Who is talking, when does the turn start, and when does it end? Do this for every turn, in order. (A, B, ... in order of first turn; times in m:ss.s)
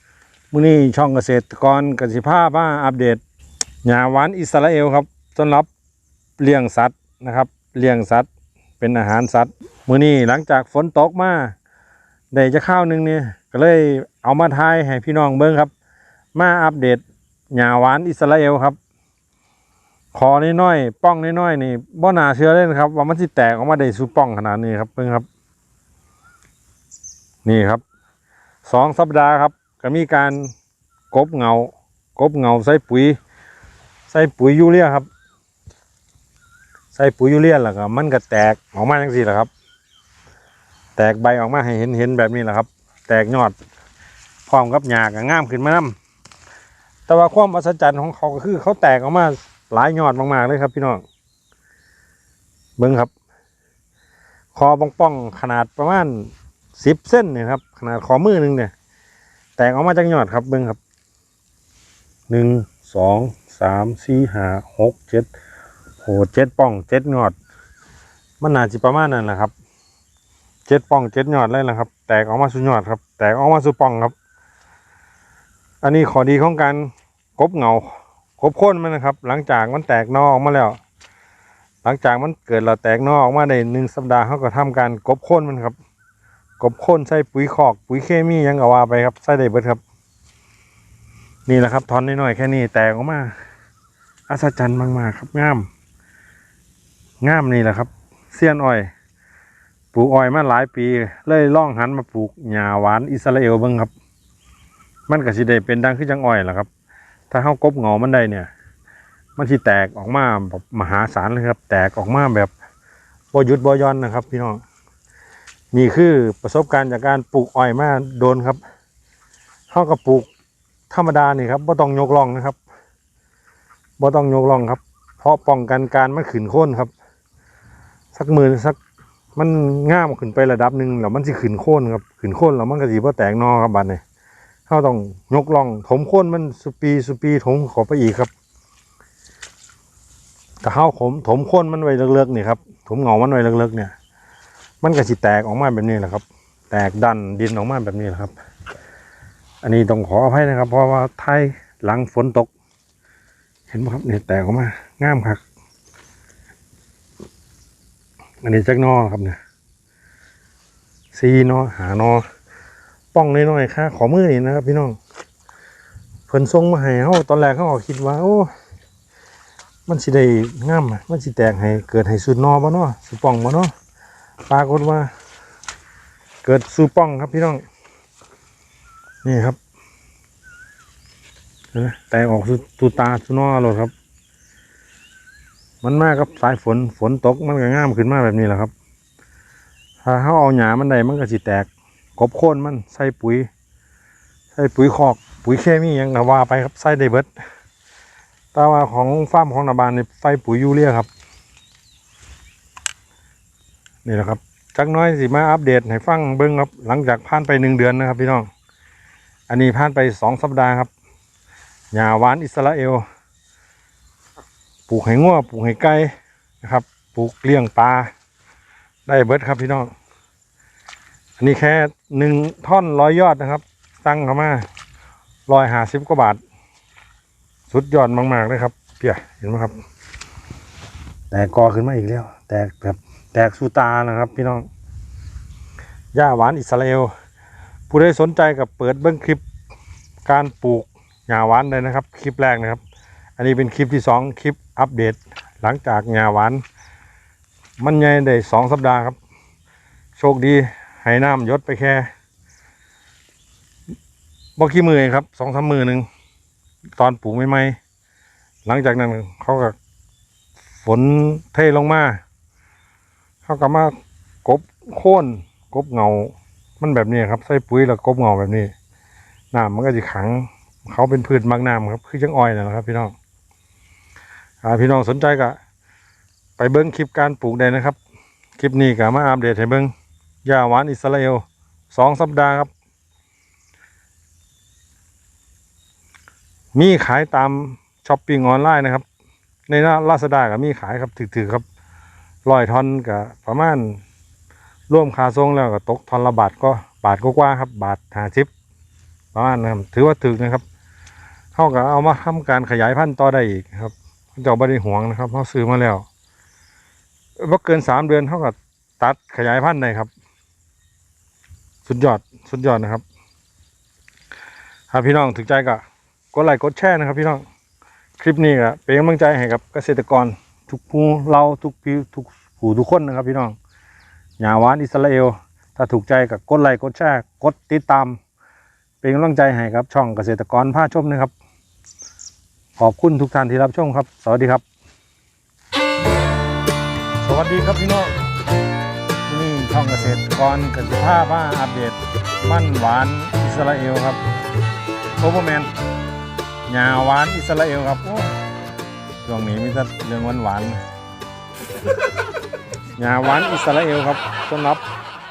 0:00.5-0:03.2 A
0:03.8-0:05.7 A
0:06.4-0:08.3 A
0:08.8-0:11.5 A
0:12.3-0:15.7 A
0:16.3-0:18.8 A
0:20.1-0:25.3 A
0:27.4-0:27.8 A
0:28.6-0:30.5 A
0:31.1-0:33.2 A
0:34.1-0:35.1 A
0:36.9-0:39.5 A
0:41.0-0:43.6 A
0:44.5-0:46.0 A
0:47.1-0:51.0 A
0:52.8-0:53.1 A
0:54.6-0:58.7 A
0:59.6-1:00.8 A
1:02.3-1:05.3 A
1:06.0-1:07.4 A
1:08.4-1:09.5 A
1:10.7-1:14.1 A
1:15.8-1:20.8 A
1:21.8-1:25.8 A
1:26.6-1:29.8 A
1:31.5-1:33.4 A
1:34.3-1:35.7 A
1:37.2-1:38.9 A
1:39.9-1:43.9 A
1:45.1-1:46.7 A
1:47.3-1:48.5 A
1:49.4-1:52.5 A
1:53.3-1:54.6 A
1:55.7-1:58.6 A
1:59.7-2:00.3 A
2:00.9-2:02.6 A
2:04.0-2:06.9 A
2:08.1-2:08.8 A
2:09.4-2:14.0 A
2:14.7-2:18.3 A
2:20.6-2:23.9 A
2:24.8-2:28.3 A
2:29.6-2:32.5 A
2:33.7-2:35.4 A
2:38.4-2:39.4 A
2:41.1-2:42.2 A
2:43.1-2:45.0 A
2:46.3-2:48.5 A
2:49.9-2:53.7 A
2:54.5-2:55.1 A
2:56.4-2:57.6 A
2:59.2-2:59.6 A
3:01.7-3:03.9 A
3:05.8-3:08.7 A
3:10.0-3:13.5 A
3:14.6-3:17.3 A
3:18.5-3:21.1 A
3:24.0-3:28.5 A
3:29.5-3:30.9 A
3:31.9-3:33.0 A
3:34.9-3:38.1 A
3:39.1-3:39.9 A
3:41.4-3:44.6 A
3:45.5-3:46.4 A
3:47.7-3:49.7 A
3:51.3-3:54.7 A
3:56.1-3:57.1 A
3:57.9-3:59.4 A
4:00.2-4:02.8 A
4:03.4-4:06.6 A
4:07.8-4:09.2 A
4:10.2-4:12.1 A
4:14.6-4:16.1 A
4:17.0-4:17.8 A
4:18.6-4:19.8 A
4:20.8-4:22.2 A
4:23.5-4:23.9 A
4:24.4-4:28.7 A
4:29.5-4:33.1 A
4:34.6-4:35.6 A
4:36.6-4:38.0 A
4:38.6-4:39.9 A
4:40.4-4:42.7 A
4:46.7-4:49.0 A
4:49.7-4:51.6 A
4:52.4-4:54.0 A
4:54.9-4:58.5 A
4:59.3-5:00.6 A
5:01.6-5:06.1 A
5:07.4-5:10.1 A
5:11.8-5:13.0 A
5:14.9-5:17.4 A
5:18.2-5:23.6 A
5:24.4-5:28.2 A
5:29.0-5:31.3 A
5:32.8-5:34.6 A
5:37.2-5:38.1 A
5:39.3-5:44.2 A
5:45.2-5:45.7 A
5:46.7-5:48.3 A
5:49.2-5:50.8 A
5:53.0-5:54.8 A